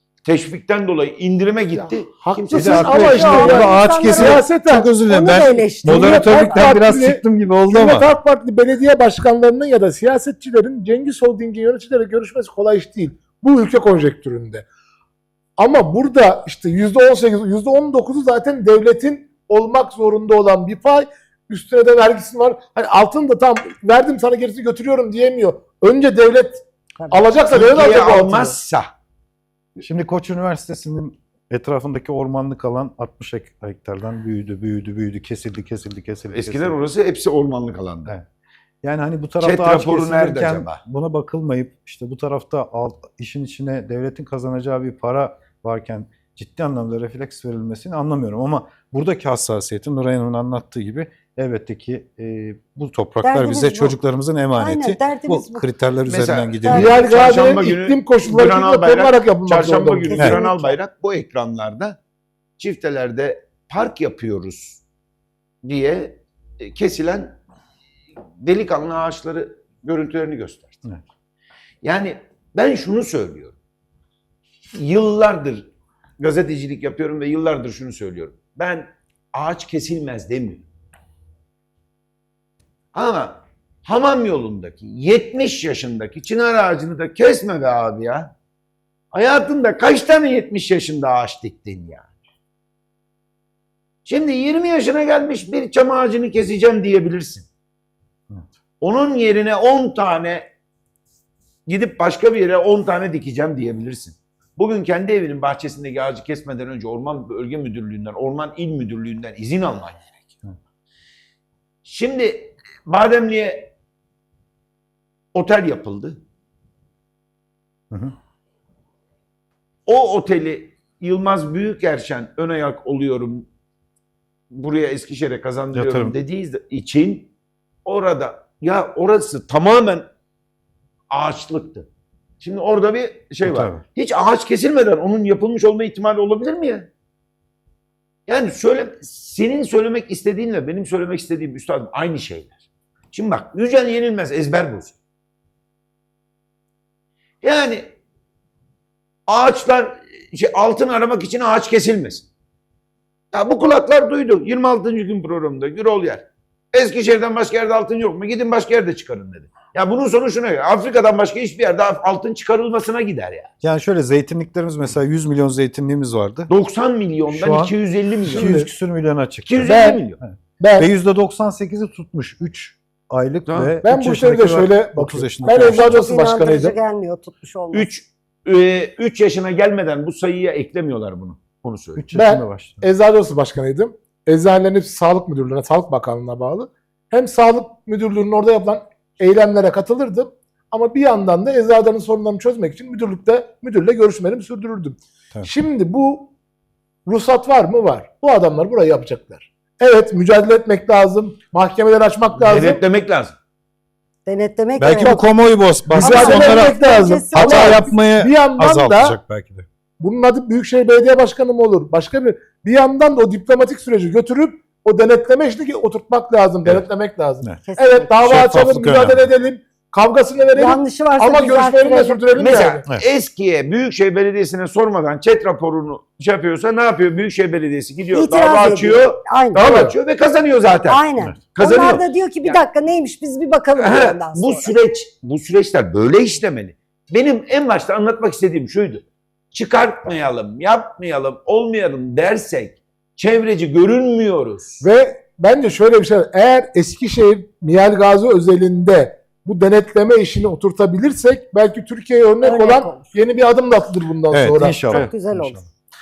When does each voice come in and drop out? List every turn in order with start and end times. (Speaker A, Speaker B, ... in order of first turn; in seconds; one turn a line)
Speaker A: 0.2-3.8
Speaker B: 2.2-4.9
Speaker C: 2.5-6.7
Speaker D: 2.5-8.1
Speaker B: 5.8-14.7
Speaker B: 15.6-28.6
Speaker C: 27.0-27.3
Speaker A: 27.5-28.9
Speaker D: 29.8-36.8
Speaker A: 36.3-38.2
Speaker D: 38.8-56.9
Speaker A: 39.4-40.8
Speaker C: 53.2-54.0
Speaker C: 54.6-55.7
Speaker A: 56.1-62.0
Speaker C: 56.6-57.0
Speaker B: 56.7-60.2
Speaker C: 60.0-60.8
Speaker A: 62.6-64.8
Speaker A: 65.6-67.4
Speaker A: 68.4-70.8
Speaker A: 71.8-73.5
Speaker A: 74.7-75.7
Speaker A: 76.2-80.7
Speaker A: 82.9-88.3
Speaker A: 89.1-92.1
Speaker A: 94.0-97.5
Speaker A: 98.8-100.5
Speaker A: 101.7-110.3
Speaker A: 111.8-113.7
Speaker A: 115.3-116.2
Speaker A: 119.9-123.5
Speaker A: 124.5-127.3
Speaker D: 125.7-126.2
Speaker A: 127.8-130.1
Speaker A: 131.1-131.9
Speaker A: 132.4-136.9
Speaker D: 133.4-133.8
Speaker A: 138.3-142.6
Speaker A: 143.1-144.9
Speaker A: 147.4-147.9
Speaker A: 149.3-152.3
Speaker A: 153.3-163.5
Speaker D: 163.6-166.5
Speaker A: 166.5-168.6
Speaker D: 167.3-176.0
Speaker B: 168.3-168.7
Speaker A: 169.4-170.2
Speaker B: 169.6-170.0
Speaker B: 170.6-170.9
Speaker A: 173.5-173.8
Speaker B: 173.8-176.8
Speaker C: 175.4-177.9
Speaker A: 177.7-182.1
Speaker D: 182.0-182.8
Speaker B: 182.1-196.3
Speaker B: 197.1-202.8
Speaker A: 202.4-203.4
Speaker C: 204.3-205.2
Speaker D: 204.8-206.8
Speaker B: 205.0-205.2
Speaker B: 205.9-209.2
Speaker C: 205.9-207.9
Speaker D: 207.3-209.7
Speaker B: 210.0-222.9
Speaker C: 217.7-218.5
Speaker D: 218.2-219.3
Speaker C: 220.6-222.2
Speaker A: 222.4-231.0
Speaker C: 228.1-229.9
Speaker B: 229.6-229.9
Speaker C: 230.9-234.7
Speaker A: 231.5-232.6
Speaker A: 233.8-244.8
Speaker B: 244.8-255.1
Speaker C: 252.4-253.1
Speaker D: 254.3-255.7
Speaker C: 254.6-255.6